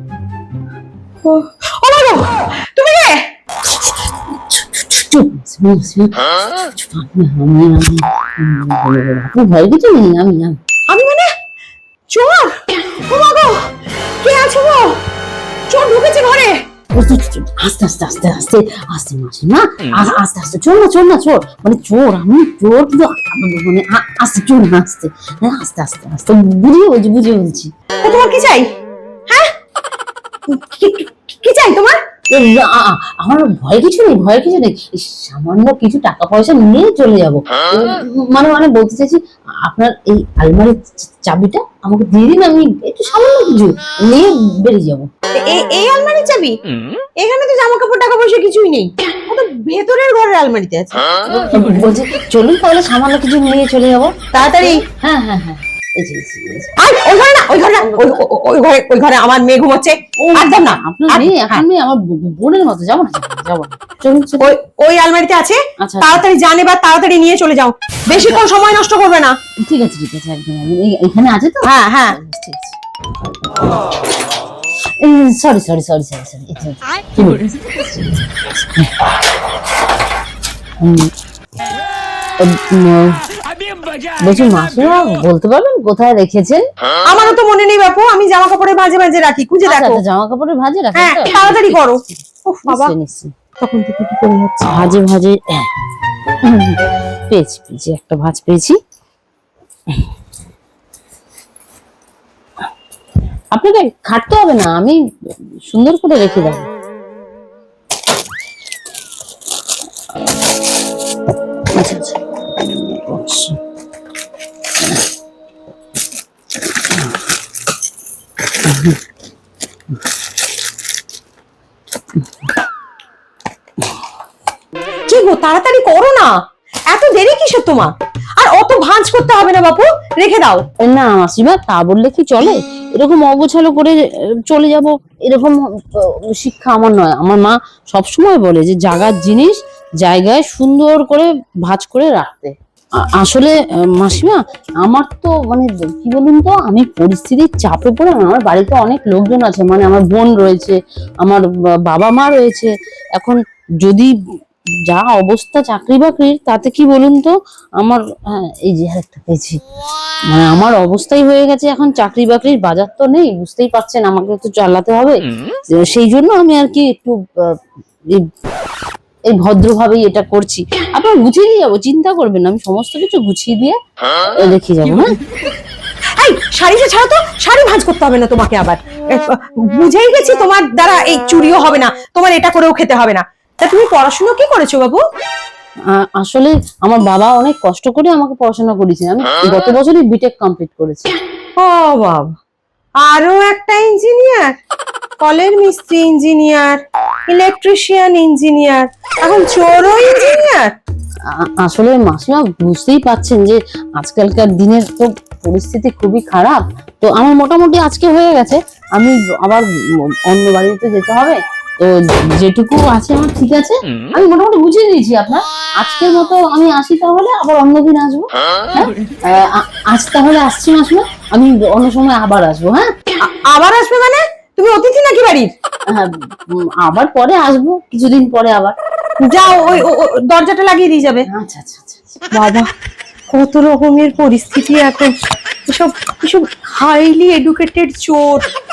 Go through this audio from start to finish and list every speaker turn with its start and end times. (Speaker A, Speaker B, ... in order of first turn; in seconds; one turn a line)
Speaker A: 1.2-3.3
Speaker B: 4.5-10.6
Speaker A: 10.9-11.3
Speaker A: 12.1-15.0
Speaker A: 15.7-16.6
Speaker B: 16.9-27.7
Speaker A: 28.0-28.7
Speaker A: 29.3-29.5
Speaker A: 30.5-32.0
Speaker B: 32.3-45.1
Speaker A: 45.3-46.6
Speaker A: 47.2-51.2
Speaker B: 51.2-56.7
Speaker A: 54.3-54.9
Speaker A: 56.8-61.6
Speaker B: 57.8-58.2
Speaker B: 60.2-64.6
Speaker A: 64.4-69.3
Speaker B: 65.8-66.2
Speaker B: 69.6-72.8
Speaker A: 71.6-72.2
Speaker B: 75.0-79.0
Speaker B: 80.8-81.1
Speaker B: 82.4-83.2
Speaker B: 84.2-86.7
Speaker A: 87.0-90.0
Speaker B: 89.7-92.1
Speaker A: 90.9-92.9
Speaker B: 92.7-93.3
Speaker A: 93.6-94.8
Speaker B: 94.7-95.9
Speaker B: 96.4-98.8
Speaker B: 103.5-105.0
Speaker B: 105.6-106.7
Speaker B: 111.7-113.6
Speaker B: 118.6-119.0
Speaker A: 125.1-126.3
Speaker A: 126.9-130.7
Speaker B: 130.8-154.1
Speaker B: 154.9-159.6
Speaker B: 160.3-165.2
Speaker B: 165.8-167.6
Speaker B: 169.3-175.1
Speaker A: 176.2-185.0
Speaker B: 185.9-191.1
Speaker A: 191.6-192.3
Speaker A: 193.0-194.5
Speaker A: 195.2-200.7
Speaker B: 201.3-209.7
Speaker B: 210.3-222.9
Speaker A: 223.2-225.5
Speaker B: 225.9-228.8
Speaker A: 229.2-231.3
Speaker B: 229.4-229.9
Speaker B: 231.3-232.1
Speaker A: 232.3-232.7
Speaker A: 233.3-235.1
Speaker A: 235.7-238.5